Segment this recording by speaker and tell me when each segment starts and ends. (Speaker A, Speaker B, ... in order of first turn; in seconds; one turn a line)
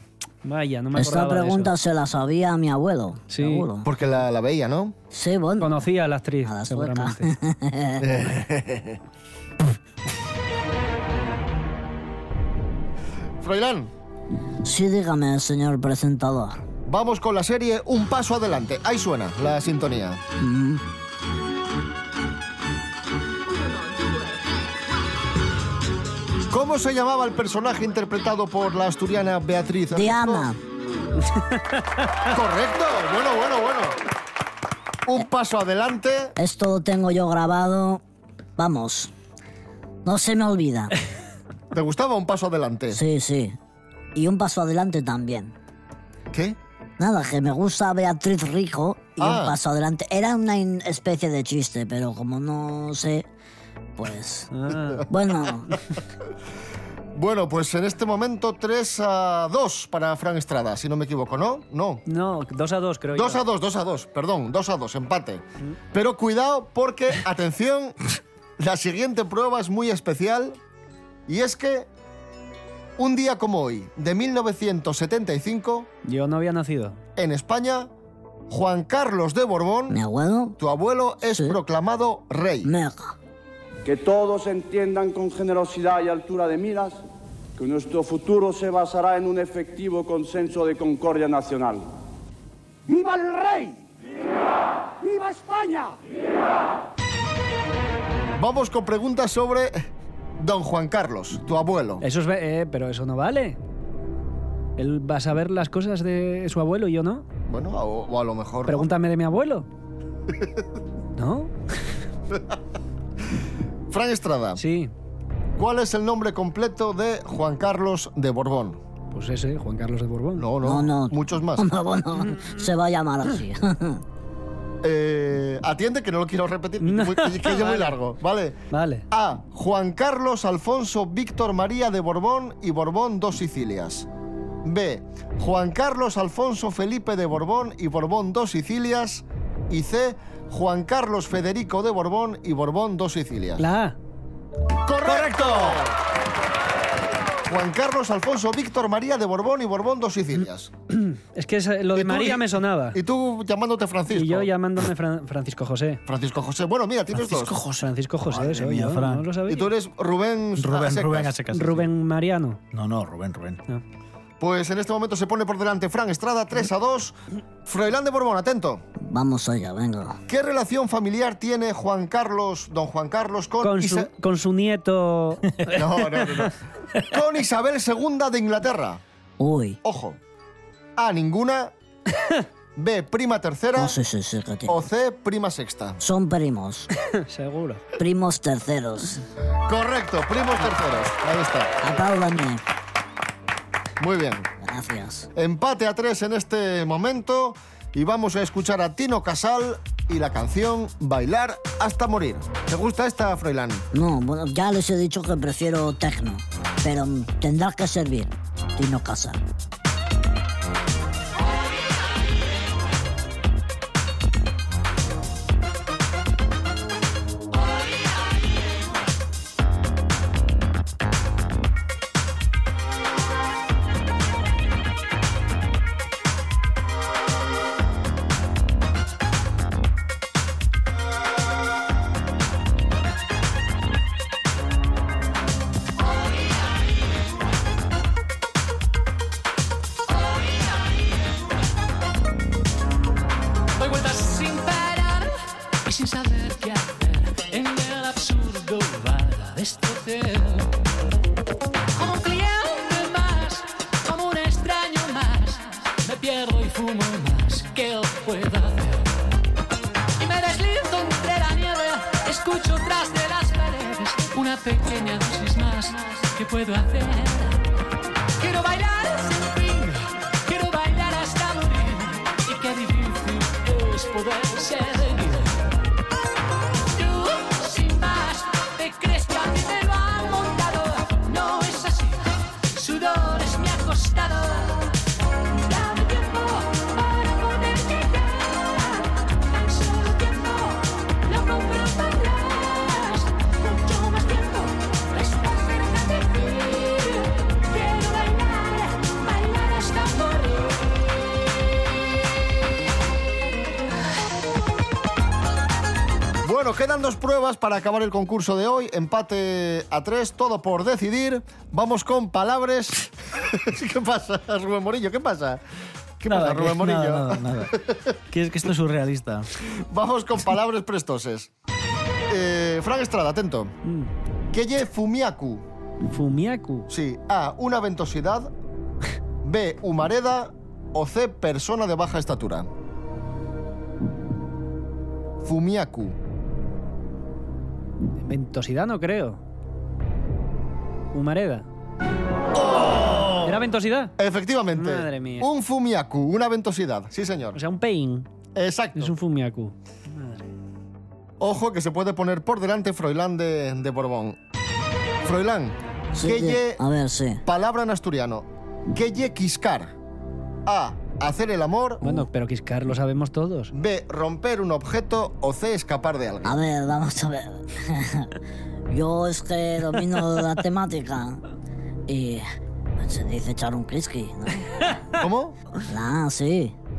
Speaker A: 0.4-1.7
Speaker B: 0.9-3.9
Speaker A: 3.3-3.7
Speaker C: 3.9-5.0
Speaker B: 5.1-5.9
Speaker A: 5.6-7.3
Speaker B: 6.4-8.1
Speaker C: 8.0-9.0
Speaker C: 13.4-13.9
Speaker B: 14.6-16.6
Speaker C: 16.9-20.2
Speaker B: 20.4-20.8
Speaker C: 26.5-30.5
Speaker B: 29.9-30.6
Speaker A: 31.4-32.1
Speaker C: 32.3-34.0
Speaker C: 35.0-36.4
Speaker B: 36.4-38.0
Speaker B: 38.6-39.1
Speaker B: 40.0-41.0
Speaker C: 41.7-43.0
Speaker B: 42.9-43.6
Speaker B: 44.1-45.5
Speaker C: 46.3-46.6
Speaker B: 47.0-53.3
Speaker C: 49.2-49.6
Speaker B: 54.0-54.5
Speaker A: 54.5-55.1
Speaker B: 55.1-55.8
Speaker C: 57.1-62.0
Speaker A: 62.1-63.4
Speaker C: 63.1-68.0
Speaker C: 68.6-70.6
Speaker C: 71.3-71.9
Speaker C: 73.0-75.9
Speaker A: 76.0-77.0
Speaker C: 77.2-77.9
Speaker C: 78.5-80.0
Speaker B: 79.9-80.6
Speaker C: 80.6-82.7
Speaker B: 81.3-81.6
Speaker B: 82.6-83.2
Speaker D: 83.8-87.0
Speaker D: 87.6-91.9
Speaker D: 92.9-93.8
Speaker D: 95.0-96.0
Speaker C: 98.4-99.9
Speaker C: 100.4-102.0
Speaker A: 102.0-103.6
Speaker A: 104.8-107.2
Speaker C: 107.5-108.9
Speaker A: 108.7-109.7
Speaker A: 111.2-111.5
Speaker C: 112.3-112.6
Speaker C: 113.9-114.6
Speaker A: 114.6-114.9
Speaker C: 115.6-118.8
Speaker A: 119.1-120.5
Speaker C: 120.4-121.7
Speaker B: 120.6-124.0
Speaker C: 124.8-128.6
Speaker A: 126.8-128.0
Speaker A: 128.7-129.1
Speaker C: 129.1-134.1
Speaker C: 134.6-143.7
Speaker A: 143.6-144.0
Speaker C: 144.8-146.0
Speaker E: 145.1-145.8
Speaker C: 147.5-150.7
Speaker A: 150.9-153.0
Speaker C: 151.9-154.5
Speaker A: 154.1-156.0
Speaker C: 156.1-157.6
Speaker E: 157.2-159.3
Speaker A: 157.7-159.7
Speaker C: 159.5-161.3
Speaker E: 160.6-161.9
Speaker A: 161.5-162.6
Speaker E: 162.7-163.6
Speaker C: 164.4-168.8
Speaker B: 169.0-170.2
Speaker C: 170.3-174.1
Speaker A: 173.6-176.4
Speaker C: 175.7-179.0
Speaker B: 179.4-179.8
Speaker C: 179.8-180.2
Speaker C: 181.0-181.7
Speaker C: 182.8-184.0
Speaker B: 183.8-184.8
Speaker C: 184.7-186.0
Speaker B: 186.0-186.9
Speaker A: 187.1-187.8
Speaker B: 188.0-189.2
Speaker C: 189.7-191.7
Speaker B: 191.8-192.6
Speaker C: 194.0-194.5
Speaker B: 194.6-195.3
Speaker C: 195.3-203.8
Speaker B: 203.9-209.4
Speaker F: 240.3-240.7
Speaker F: 243.8-250.8
Speaker F: 252.0-259.1
Speaker F: 260.2-267.6
Speaker F: 268.4-275.6
Speaker F: 276.9-285.0
Speaker F: 285.5-300.9
Speaker C: 306.4-315.6
Speaker C: 316.2-318.1
Speaker E: 316.2-319.5
Speaker C: 319.6-321.5
Speaker C: 322.3-323.7
Speaker A: 323.9-324.1
Speaker C: 324.5-325.6
Speaker A: 326.1-326.9
Speaker C: 326.9-328.5
Speaker C: 329.4-332.7
Speaker C: 335.4-336.2
Speaker A: 338.2-339.4
Speaker A: 341.1-341.7
Speaker C: 342.6-343.5
Speaker A: 343.4-344.1
Speaker C: 344.2-347.6
Speaker A: 344.8-345.5
Speaker A: 347.6-348.3
Speaker C: 348.6-349.1
Speaker A: 348.9-350.4
Speaker C: 351.4-354.4
Speaker C: 355.2-356.8
Speaker B: 356.1-357.4
Speaker C: 357.4-359.9
Speaker C: 360.7-362.3
Speaker A: 362.0-363.7
Speaker C: 363.7-366.6
Speaker B: 366.4-368.4
Speaker B: 368.9-371.4
Speaker B: 372.1-372.5
Speaker B: 373.0-375.0
Speaker C: 375.2-375.6
Speaker B: 375.9-376.8